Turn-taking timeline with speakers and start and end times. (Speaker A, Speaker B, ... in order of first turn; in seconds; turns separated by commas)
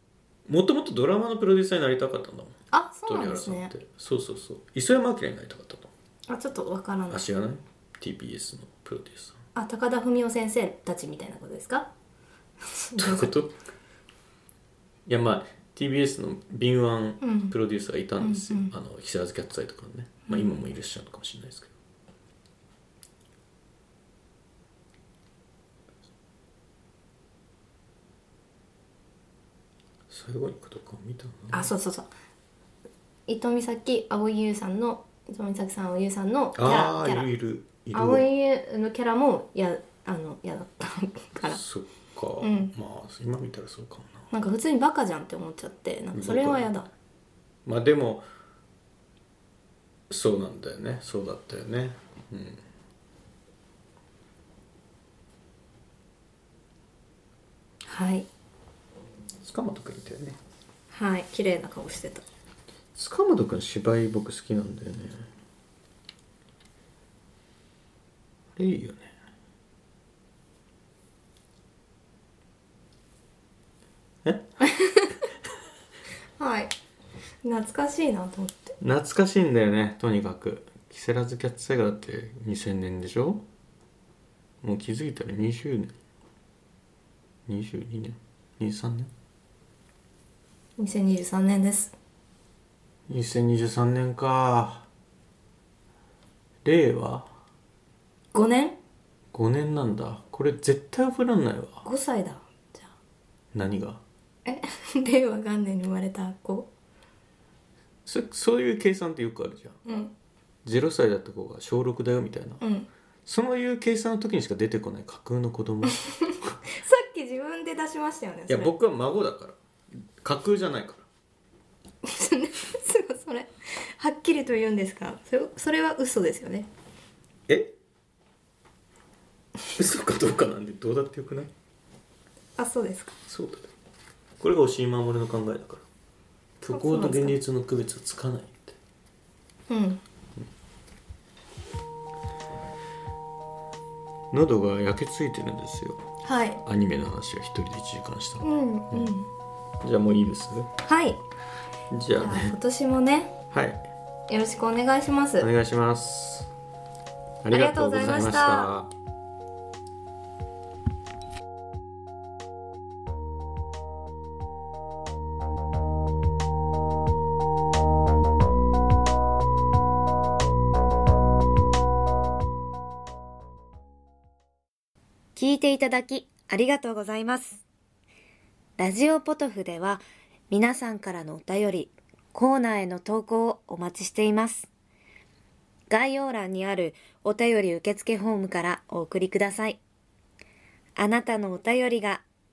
Speaker A: 0.5-2.5, Speaker B: 2.7-3.7, Speaker A: 3.0-5.9, Speaker B: 6.3-7.2, Speaker A: 7.1-9.4, Speaker B: 9.5-11.9, Speaker B: 12.6-13.3, Speaker A: 12.9-13.5, Speaker A: 15.1-21.7, Speaker B: 17.2-17.6, Speaker B: 18.2-18.7, Speaker A: 30.1-31.7, Speaker B: 31.5-32.1, Speaker B: 33.3-37.3, Speaker A: 36.5-38.3, Speaker B: 37.9-41.6, Speaker A: 41.4-44.3, Speaker B: 42.4-42.7, Speaker B: 44.3-46.9, Speaker A: 46.1-46.7, Speaker A: 47.6-48.2, Speaker A: 50.1-52.6, Speaker B: 57.9-58.3, Speaker A: 59.4-60.4, Speaker B: 60.9-62.2, Speaker A: 62.9-65.3, Speaker A: 68.5-69.1, Speaker A: 74.2-74.5, Speaker B: 74.6-75.2, Speaker B: 76.4-76.7, Speaker B: 77.4-78.7, Speaker A: 78.8-83.4, Speaker A: 84.6-85.9, Speaker A: 87.5-89.1, Speaker B: 90.8-91.9, Speaker A: 93.1-94.9, Speaker A: 96.6-97.3, Speaker B: 98.3-98.8, Speaker A: 99.3-101.8, Speaker B: 101.8-102.9, Speaker A: 103.5-104.0, Speaker B: 104.5-106.7, Speaker A: 108.0-109.8, Speaker B: 109.8-110.1, Speaker A: 110.6-112.6, Speaker B: 112.6-112.9, Speaker A: 113.2-116.5, Speaker B: 115.9-118.7, Speaker A: 118.5-119.5, Speaker A: 120.2-121.0, Speaker B: 122.0-126.7, Speaker A: 127.5-127.7, Speaker A: 129.8-131.5, Speaker B: 132.6-133.2, Speaker A: 133.3-133.7, Speaker A: 134.4-135.8, Speaker A: 136.6-138.8, Speaker B: 136.7-137.4, Speaker B: 139.7-140.0, Speaker A: 144.3-146.0, Speaker B: 146.2-146.6, Speaker A: 146.6-149.1, Speaker B: 148.4-149.3, Speaker A: 149.8-150.7, Speaker B: 150.8-151.2, Speaker A: 151.9-152.5, Speaker B: 152.2-153.3, Speaker A: 153.5-153.8, Speaker B: 154.3-155.5, Speaker A: 155.4-156.5, Speaker A: 157.4-158.9, Speaker B: 157.5-158.7, Speaker C: 175.3-177.6, Speaker C: 178.8-184.7, Speaker C: 185.9-189.8, Speaker C: 191.0-192.2